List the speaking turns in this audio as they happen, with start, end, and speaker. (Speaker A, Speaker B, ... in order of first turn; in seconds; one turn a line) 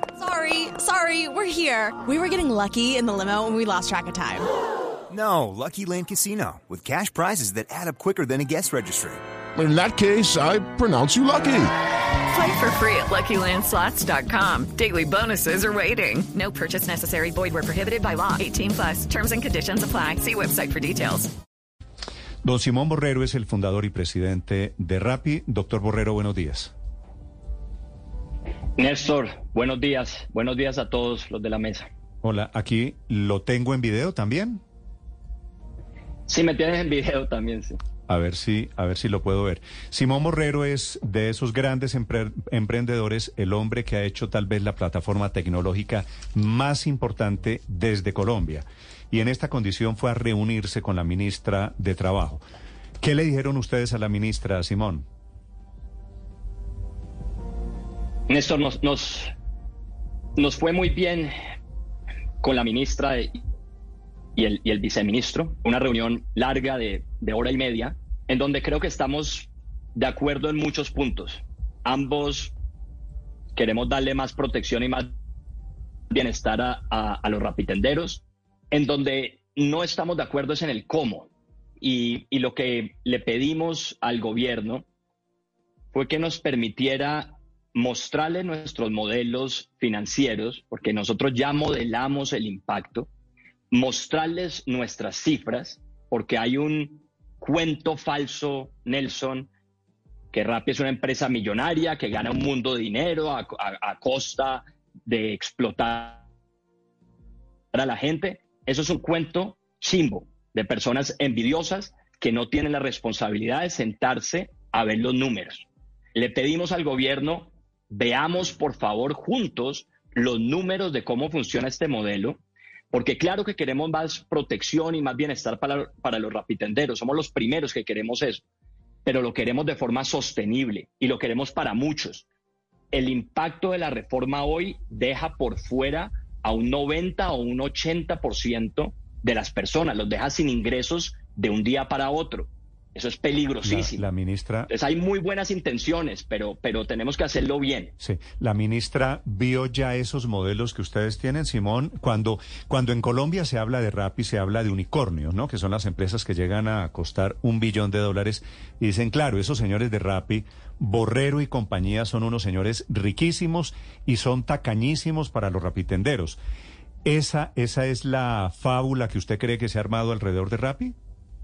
Speaker A: 0.1-4.5
Speaker B: 5.1-9.2
Speaker C: 9.6-11.7
Speaker D: 12.3-21.3
Speaker E: 22.4-26.7
Speaker F: 28.8-31.9
Speaker E: 32.2-34.6
Speaker F: 36.3-37.8
Speaker E: 38.1-52.4
Speaker E: 53.0-55.0
Speaker F: 58.3-59.3
Speaker F: 60.4-61.3
Speaker F: 62.4-63.4
Speaker F: 64.3-72.5
Speaker F: 73.5-75.1
Speaker F: 76.1-81.3
Speaker F: 81.8-84.8
Speaker F: 85.9-93.1
Speaker F: 93.7-99.5
Speaker F: 100.3-106.2
Speaker F: 107.7-122.4
Speaker F: 122.9-128.4
Speaker F: 129.0-132.2
Speaker F: 132.9-144.1
Speaker E: 143.6-144.7
Speaker F: 144.7-147.9
Speaker E: 148.0-166.4
Speaker E: 167.0-170.9